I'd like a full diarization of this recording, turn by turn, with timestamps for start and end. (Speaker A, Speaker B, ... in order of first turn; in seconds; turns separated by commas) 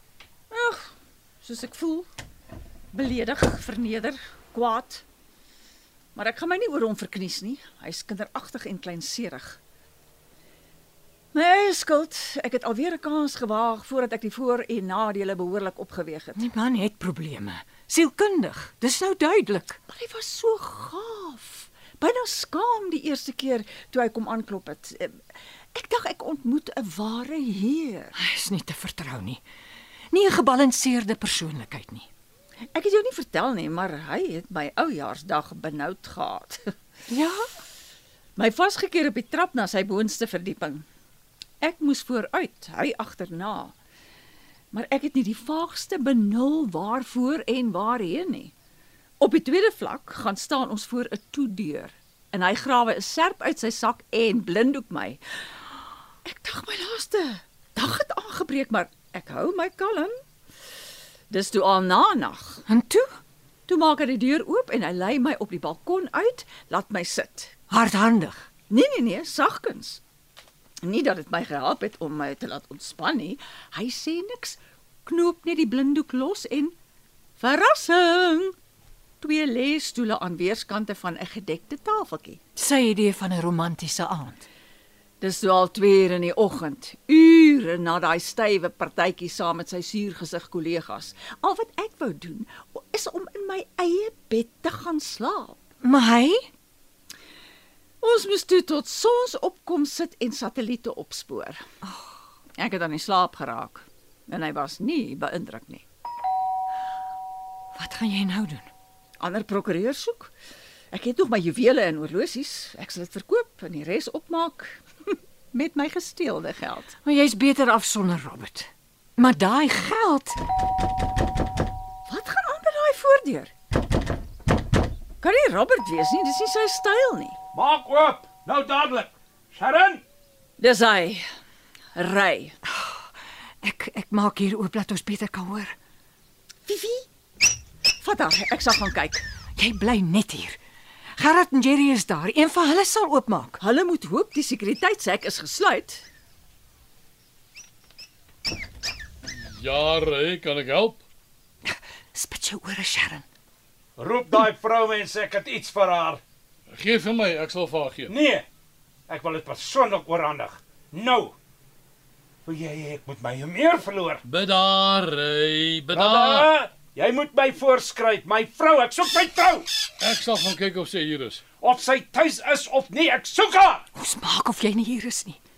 Speaker A: 0.5-2.1, Speaker A: 2.9-5.0, Speaker A: 6.1-9.6, Speaker A: 11.3-16.4, Speaker B: 16.4-19.8, Speaker A: 19.9-25.2, Speaker A: 25.7-28.1, Speaker B: 28.2-29.4, Speaker B: 30.1-32.1, Speaker A: 32.7-36.7, Speaker B: 37.1-37.5, Speaker A: 38.4-40.8, Speaker A: 41.6-43.7, Speaker A: 44.7-48.5, Speaker A: 49.2-55.6, Speaker A: 56.2-60.1, Speaker A: 61.3-62.6, Speaker B: 62.7-63.1, Speaker A: 63.7-67.5, Speaker B: 67.7-68.5, Speaker A: 68.7-70.0, Speaker A: 70.8-76.7, Speaker A: 77.4-78.5, Speaker A: 79.2-82.4, Speaker B: 82.5-84.5, Speaker A: 85.2-95.6, Speaker B: 95.8-96.5, Speaker A: 98.0-101.7, Speaker A: 102.6-105.8, Speaker B: 107.7-108.7, Speaker A: 109.2-110.3, Speaker A: 110.9-116.9, Speaker B: 117.0-120.4, Speaker A: 122.1-123.5, Speaker A: 125.2-127.4, Speaker C: 127.5-130.0, Speaker A: 130.6-131.2, Speaker A: 131.9-132.5, Speaker B: 132.8-133.0, Speaker B: 133.6-135.7, Speaker A: 136.7-137.1, Speaker A: 138.0-139.2, Speaker B: 139.6-140.6, Speaker B: 141.2-143.6, Speaker A: 143.6-146.1, Speaker D: 149.5-151.0, Speaker B: 151.7-153.2, Speaker C: 154.0-156.2, Speaker D: 156.7-158.1, Speaker C: 158.1-158.4, Speaker C: 159.1-161.3, Speaker C: 162.4-164.2, Speaker D: 164.2-166.5, Speaker C: 165.9-169.7, Speaker D: 170.0-171.4, Speaker C: 171.6-173.8, Speaker B: 173.9-175.4